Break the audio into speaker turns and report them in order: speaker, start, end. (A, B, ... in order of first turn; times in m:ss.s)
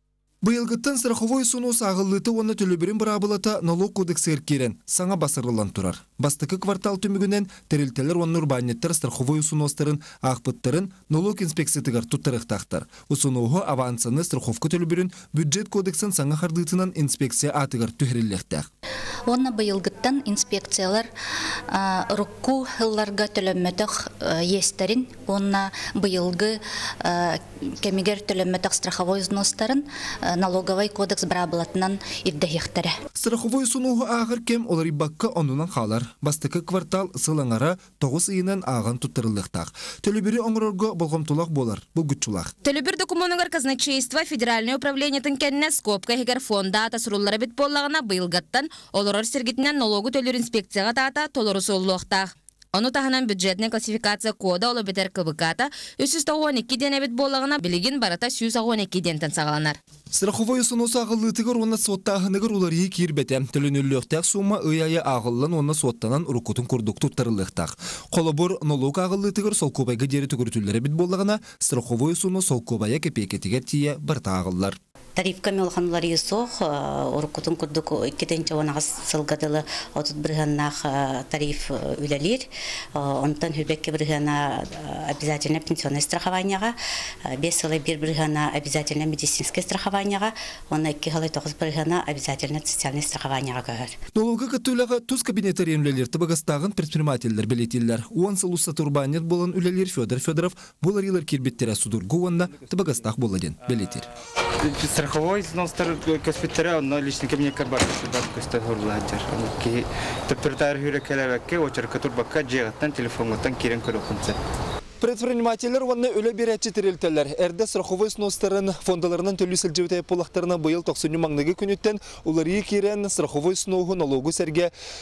0:00.4-0:18.7 A
0:19.3-0:21.1 B
0:21.7-0:32.9 B
0:33.2-0:42.5 A
0:42.6-0:59.8 C
1:00.1-1:14.8 A
1:15.2-1:34.0 D
1:34.1-1:44.1 A
1:44.6-1:54.4 E
1:55.0-2:04.7 A